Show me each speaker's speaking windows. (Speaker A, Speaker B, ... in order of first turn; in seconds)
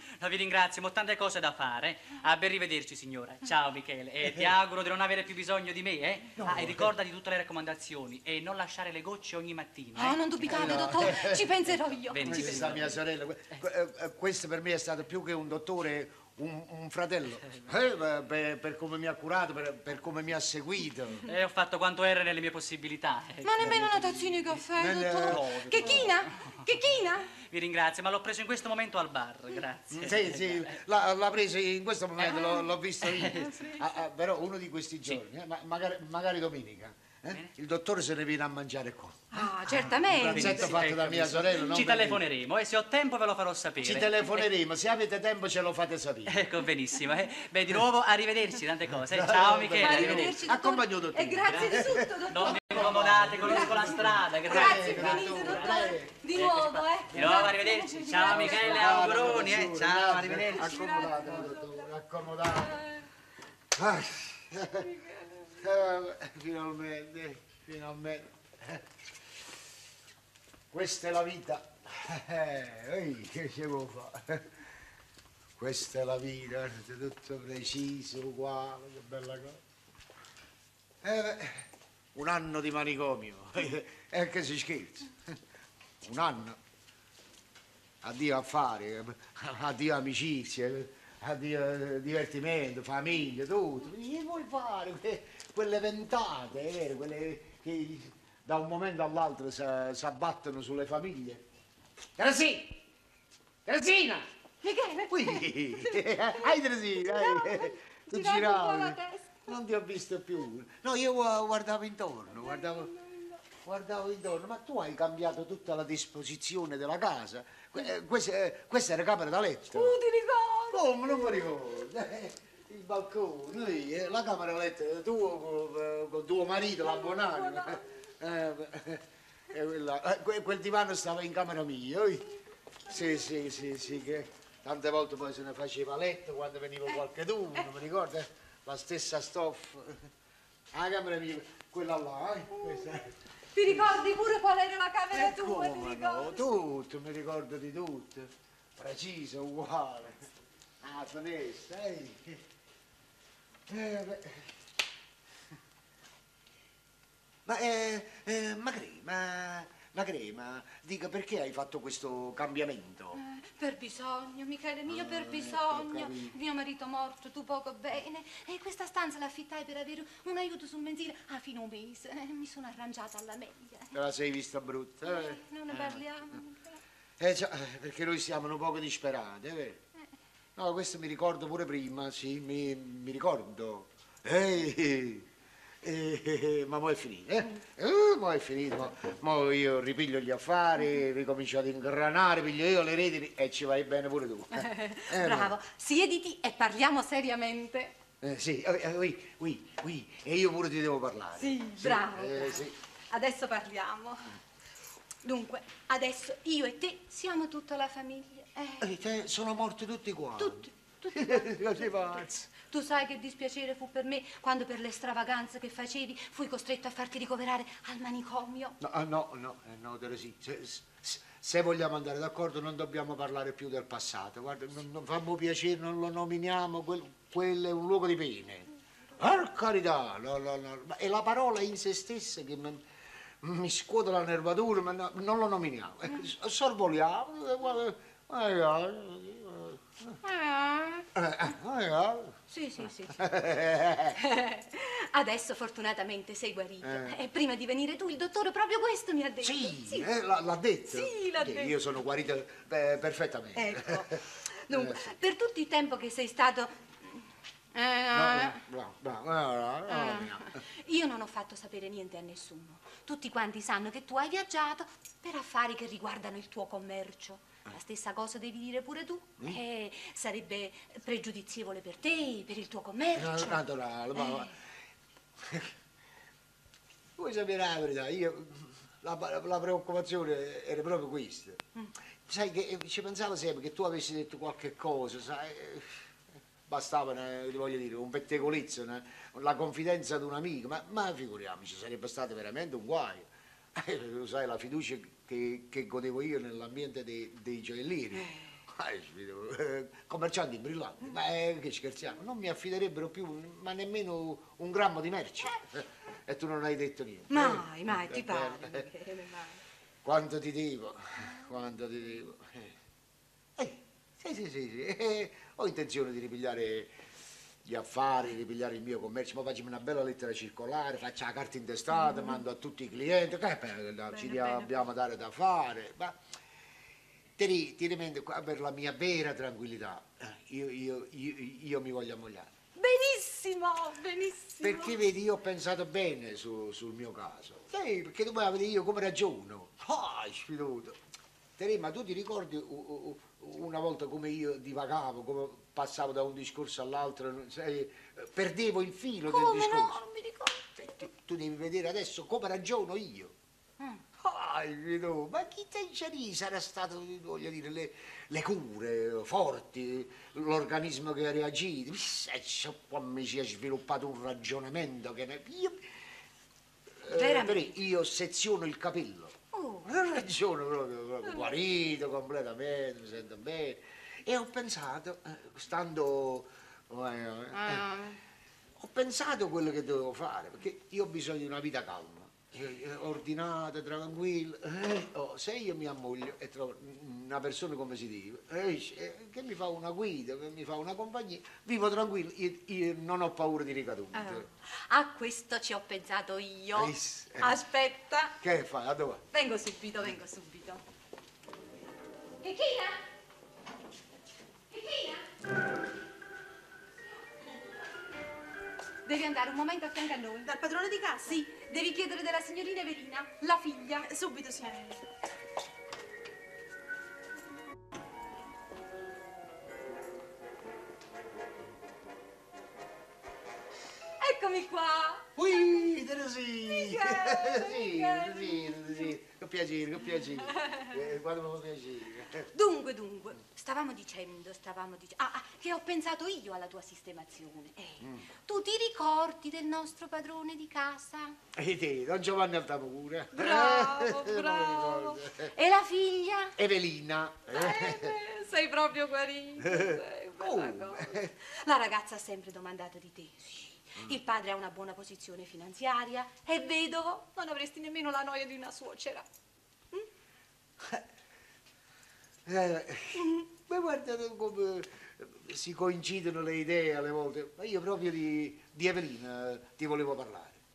Speaker A: 0.2-11.2, 12.1-13.6, 21.3-23.9, 25.3-25.9, 27.5-30.8, 33.1-33.6, 40.1-44.4, 46.3-50.4, 51.4-60.8
Speaker B: 6.4-6.9, 10.4-11.6, 12.2-21.2, 23.6-23.9, 24.7-26.1, 29.9-42.2, 43.8-46.5, 49.0-56.1, 58.1-62.8, 63.8-64.9, 65.6-68.8, 70.7-74.5, 75.6-79.6, 81.0-85.4, 86.0-86.6, 88.0-101.4, 102.2-102.8, 103.7-104.3, 105.1-112.9, 113.6-120.0, 120.7-132.2, 132.8-140.0, 140.7-143.1, 143.7-143.9, 145.1-150.2, 150.8-152.4, 153.7-154.5, 157.4-163.2, 164.9-166.3, 173.9-176.0, 177.2-179.8, 180.6-185.3, 185.8-195.5, 198.2-202.7, 208.8-212.5, 218.8-232.8, 233.4-240.2, 241.2-242.4, 243.1-244.2, 246.8-247.2, 249.4-254.1, 254.7-255.1, 258.1-260.6, 273.1-274.5, 275.4-275.7, 277.2-281.6, 282.3-285.9, 286.7-308.9, 310.0-312.7, 313.6-316.9, 317.6-326.2, 327.4-332.5, 334.6-341.0, 341.6-350.0, 350.8-353.3, 354.2-365.9, 367.0-377.9, 378.8-394.5, 396.7-397.6, 398.4-399.2, 425.4-432.5, 438.0-438.2, 441.5-445.5, 446.6-448.1, 449.6-451.3, 462.4-470.6
Speaker C: 9.9-12.6, 23.4-27.3, 39.3-40.7, 49.8-59.2, 60.5-61.8, 64.8-65.5, 104.6-109.2, 112.4-113.3, 119.7-121.1, 126.9-127.8, 143.5-146.4, 163.2-173.9, 175.0-176.8, 194.5-197.9, 201.4-204.2, 205.2-208.9, 210.4-218.8, 240.2-241.1, 242.5-243.2, 244.2-250.1, 250.9-251.7, 253.6-257.2, 257.7-258.6, 259.9-273.6, 274.1-274.5, 298.2-298.5, 307.3-309.6, 324.2-324.6, 332.8-334.9, 349.3-350.7, 367.1-367.7, 369.5-369.9, 377.5-378.2, 394.2-398.3, 399.3-400.8, 402.4-403.0, 404.7-405.2, 409.0-410.5, 411.2-414.1, 424.2-425.2, 426.7-429.0, 432.5-441.4, 443.3-446.5, 447.5-459.2
Speaker D: 410.4-411.4, 414.0-415.0